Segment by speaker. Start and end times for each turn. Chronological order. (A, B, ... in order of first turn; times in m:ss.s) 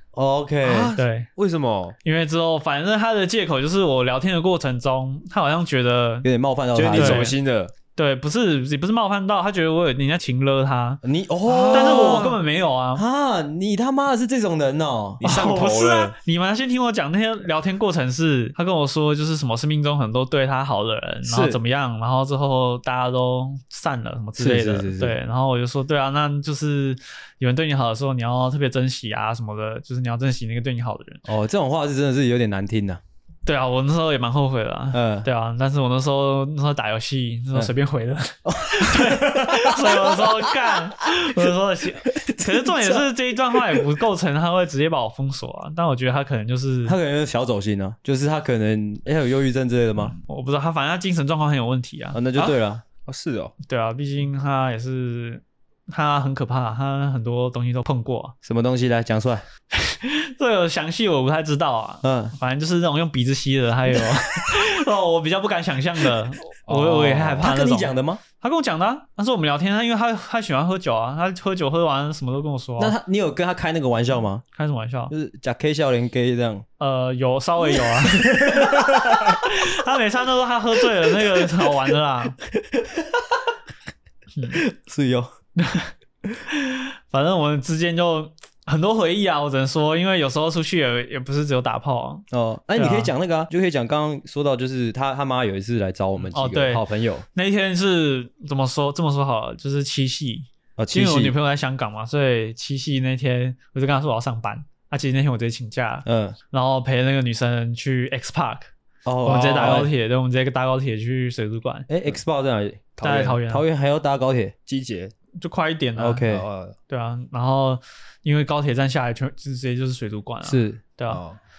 0:00.1-0:00.9 A
0:00.6-0:02.0 B
0:01.0-0:01.3 C
0:02.0-0:06.3 C
0:06.2-0:07.3 A
0:06.7-0:07.7 B
0:06.9-0:07.4 C
0:08.0-0:11.0 C
0:11.0-0:12.4 A
0:11.4-0:12.4 B
0:11.7-0:13.0 C
0:12.9-0:15.2 A
0:15.2-0:16.1 B
0:15.2-0:31.2 C
0:21.2-0:21.6 A
0:24.4-0:25.2 A
0:31.2-0:33.0 A
0:33.4-0:47.0 C
0:34.9-0:35.3 A
0:38.4-0:41.1 A
0:42.1-0:43.8 A
0:46.8-0:50.1 A
0:50.0-0:52.2 C
0:52.1-0:52.8 A
0:52.4-0:53.5 B
0:53.6-0:58.3 C
0:58.4-0:59.4 A
0:59.7-1:12.9 C
1:02.0-1:02.3 A
1:04.1-1:04.5 A
1:06.7-1:07.4 B
1:07.1-1:08.2 A
1:12.8-1:14.4 A
1:14.6-1:15.1 C
1:15.1-1:16.6 A
1:16.8-1:22.4 C
1:17.7-1:19.4 A
1:22.6-1:23.3 A
1:24.4-1:24.6 C
1:24.5-1:25.3 A
1:25.6-1:32.2 C
1:32.3-1:37.2 A
1:32.8-1:33.1 C
1:36.3-1:48.7 C
1:40.8-1:41.4 A
1:46.0-1:46.4 A
1:49.0-1:49.9 A
1:49.2-1:51.9 C
1:49.3-1:49.8 B
1:51.9-1:54.5 A
1:53.0-1:53.4 B
1:53.0-1:53.6 C
1:54.7-1:55.1 B
1:55.4-1:56.3 C
1:56.0-1:56.4 A
1:56.3-1:56.8 B
1:56.9-2:01.2 C
2:00.4-2:00.8 A
2:01.1-2:01.4 B